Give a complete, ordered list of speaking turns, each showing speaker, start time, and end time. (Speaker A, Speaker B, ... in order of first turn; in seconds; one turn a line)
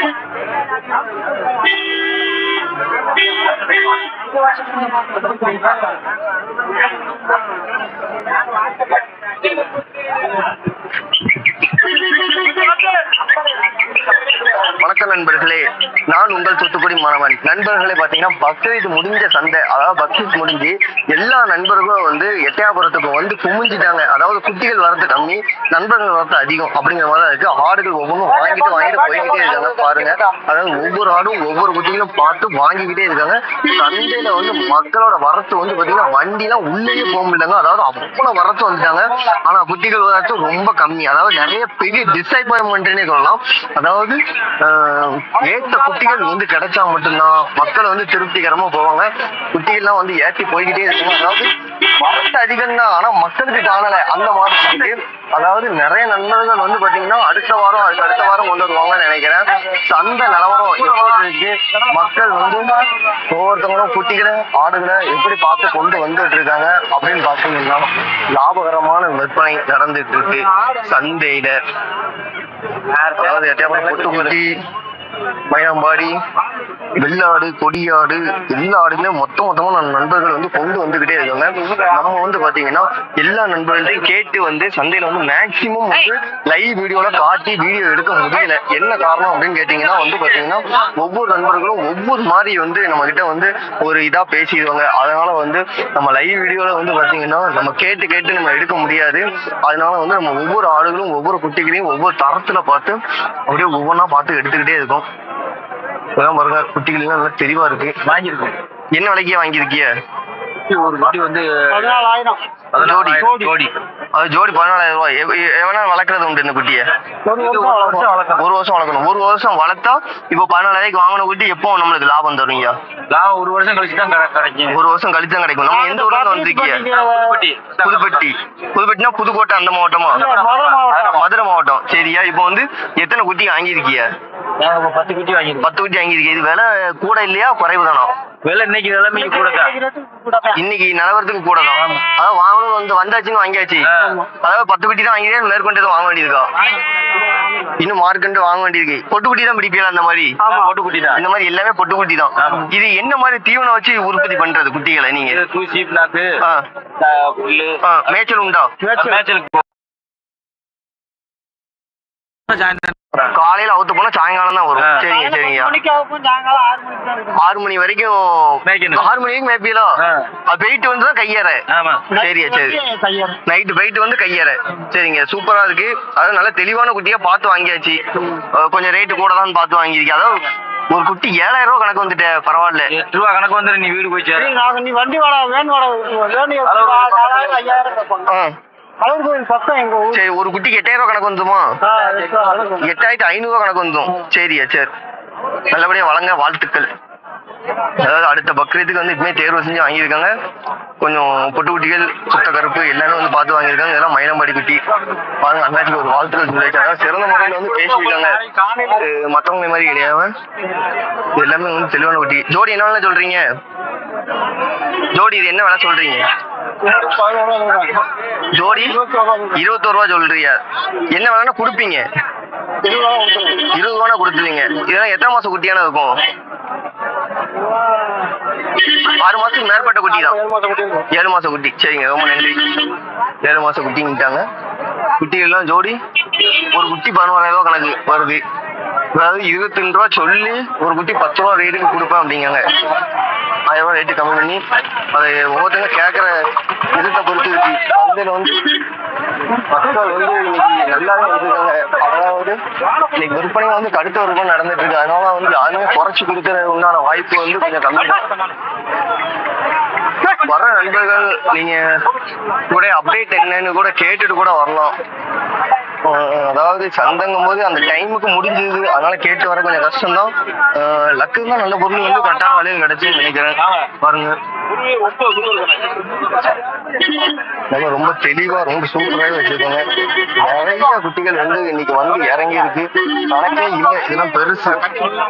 Speaker A: 14.6-71.6
Speaker B: 72.9-74.4
Speaker A: 73.2-74.5
Speaker A: 75.5-76.2
Speaker A: 77.0-105.1
Speaker A: 106.2-108.0
Speaker B: 108.0-108.6
Speaker A: 108.9-109.9
Speaker B: 110.7-112.0
Speaker C: 111.8-112.4
Speaker B: 112.8-113.7
Speaker A: 112.8-113.3
Speaker C: 113.2-113.5
Speaker A: 114.1-116.9
Speaker C: 117.3-118.1
Speaker B: 117.4-118.4
Speaker A: 118.4-122.8
Speaker B: 123.1-124.8
Speaker A: 124.7-126.9
Speaker C: 125.8-127.4
Speaker B: 126.9-128.0
Speaker A: 127.8-130.3
Speaker B: 130.1-131.0
Speaker C: 130.2-131.2
Speaker A: 130.9-134.1
Speaker B: 134.6-135.7
Speaker A: 135.6-138.1
Speaker B: 138.4-139.8
Speaker C: 139.3-140.6
Speaker A: 140.5-143.9
Speaker B: 143.9-144.2
Speaker A: 144.4-146.5
Speaker A: 147.8-150.3
Speaker B: 150.4-151.2
Speaker A: 151.1-155.4
Speaker B: 152.4-152.7
Speaker B: 155.3-156.3
Speaker B: 157.0-157.8
Speaker A: 157.8-158.8
Speaker B: 158.9-159.6
Speaker B: 162.5-162.9
Speaker A: 163.3-165.8
Speaker B: 164.8-165.1
Speaker C: 165.1-167.3
Speaker A: 167.3-169.9
Speaker B: 168.7-169.1
Speaker B: 170.0-170.3
Speaker A: 170.5-171.6
Speaker B: 171.7-172.1
Speaker C: 172.1-173.4
Speaker A: 172.2-172.8
Speaker A: 173.5-182.9
Speaker B: 182.9-184.5
Speaker C: 184.4-188.2
Speaker B: 186.7-187.7
Speaker A: 188.2-188.5
Speaker C: 189.0-190.2
Speaker A: 190.1-191.7
Speaker C: 191.9-192.8
Speaker A: 192.7-194.9
Speaker A: 195.7-196.9
Speaker A: 198.0-200.3
Speaker A: 201.0-204.8
Speaker A: 205.4-210.3
Speaker A: 211.4-213.4
Speaker A: 215.1-216.3
Speaker C: 216.9-218.0
Speaker A: 218.5-219.0
Speaker C: 219.0-219.5
Speaker A: 219.5-220.6
Speaker A: 221.1-222.1
Speaker C: 222.8-223.6
Speaker A: 223.6-226.1
Speaker A: 229.0-230.4
Speaker C: 230.5-230.9
Speaker A: 231.1-232.9
Speaker A: 233.4-234.4
Speaker A: 235.2-238.4
Speaker A: 239.2-242.6
Speaker A: 243.7-244.6
Speaker A: 245.1-246.3
Speaker A: 246.9-248.8
Speaker A: 249.7-252.6
Speaker A: 253.1-258.2
Speaker A: 260.3-261.8
Speaker A: 262.7-265.0
Speaker A: 266.0-274.4
Speaker B: 273.6-273.9
Speaker B: 274.9-276.0
Speaker A: 277.7-284.9